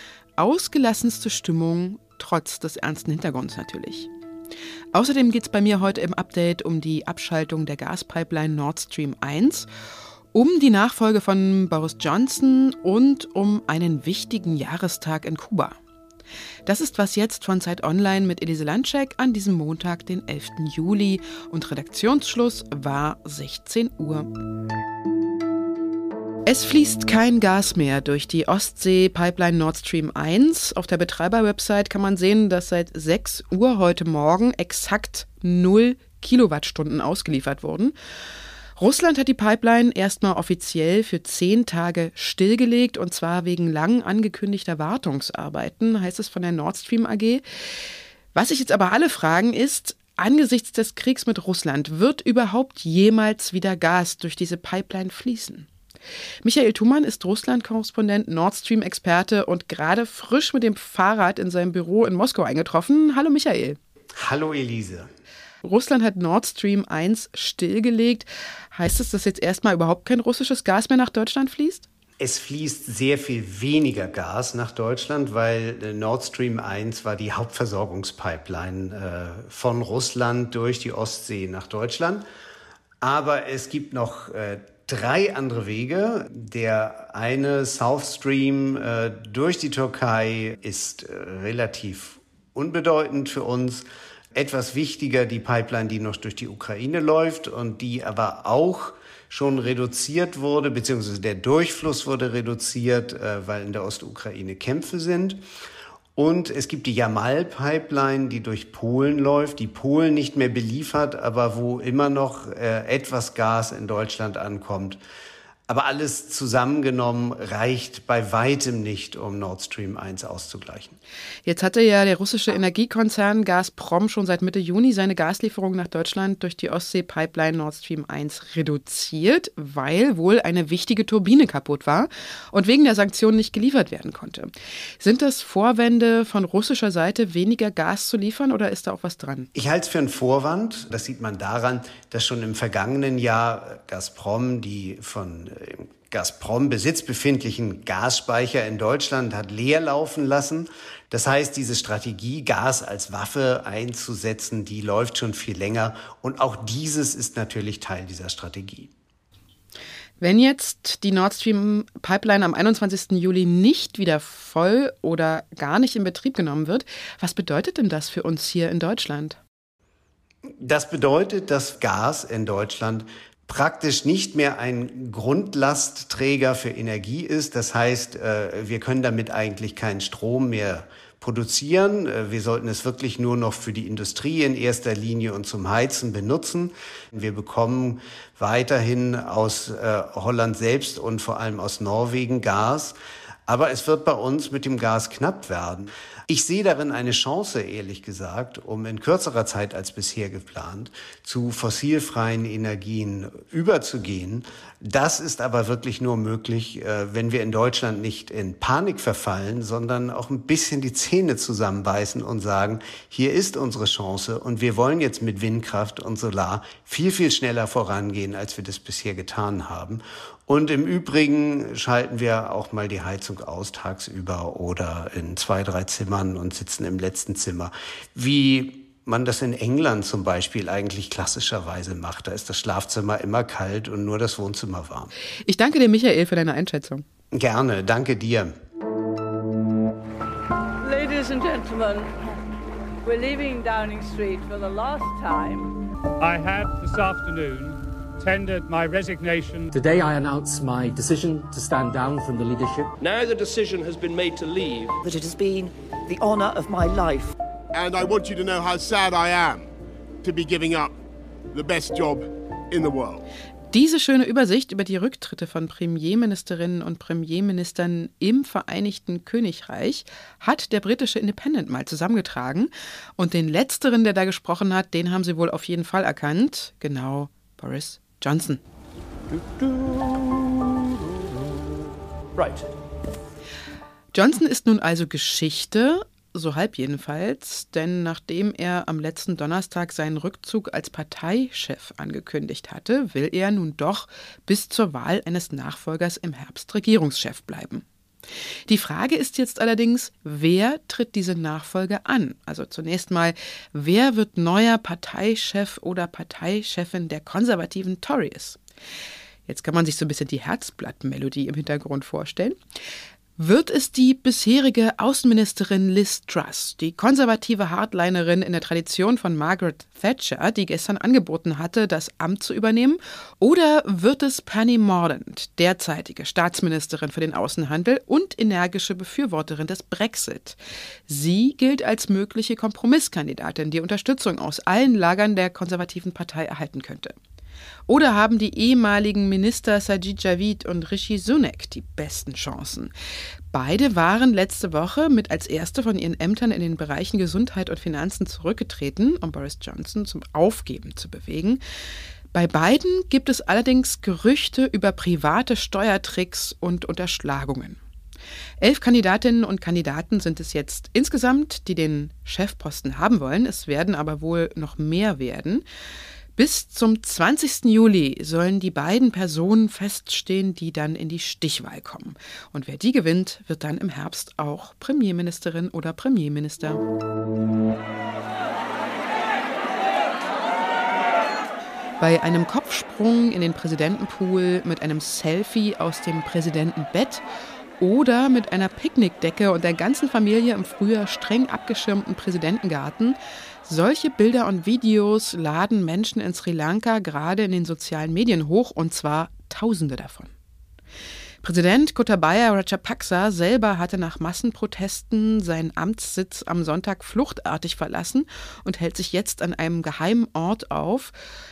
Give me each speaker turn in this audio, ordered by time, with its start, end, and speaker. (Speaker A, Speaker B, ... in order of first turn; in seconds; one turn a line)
Speaker A: 0.4-4.1
Speaker A: 4.9-9.7
Speaker A: 10.3-15.8
Speaker A: 16.7-24.3
Speaker A: 26.5-38.0
Speaker A: 38.8-47.4
Speaker A: 48.3-55.7
Speaker A: 56.4-63.8
Speaker B: 64.2-65.1
Speaker A: 65.6-71.9
Speaker B: 72.2-82.2
Speaker B: 83.0-93.8
Speaker B: 94.4-105.4
Speaker B: 106.2-115.0
Speaker B: 115.7-121.0
Speaker A: 121.5-139.5
Speaker B: 139.6-158.9
Speaker A: 160.2-169.4
Speaker B: 170.6-192.9
Speaker B: 193.5-235.1
Speaker A: 235.5-237.1
Speaker B: 237.3-238.5
Speaker C: 240.8-242.1
Speaker C: 243.1-245.7
Speaker D: 246.2-249.7
Speaker E: 249.7-253.0
Speaker F: 253.0-255.0
Speaker G: 255.0-257.3
Speaker H: 257.7-259.7
Speaker H: 260.2-260.9
Speaker H: 261.5-263.2
Speaker A: 263.7-278.6
Speaker F: 279.3-280.7
Speaker F: 282.4-282.6
Speaker A: 284.1-297.9
Speaker A: 298.7-308.6
Speaker A: 309.5-312.6
Speaker A: 313.4-337.1
Speaker A: 337.9-342.9
Speaker A: 343.5-351.6
Speaker A: 352.3-357.8
Speaker A: 358.6-365.6
Speaker A: 366.4-376.8
Speaker A: 382.0-387.2
Speaker A: 387.8-400.3
Speaker A: 401.4-411.1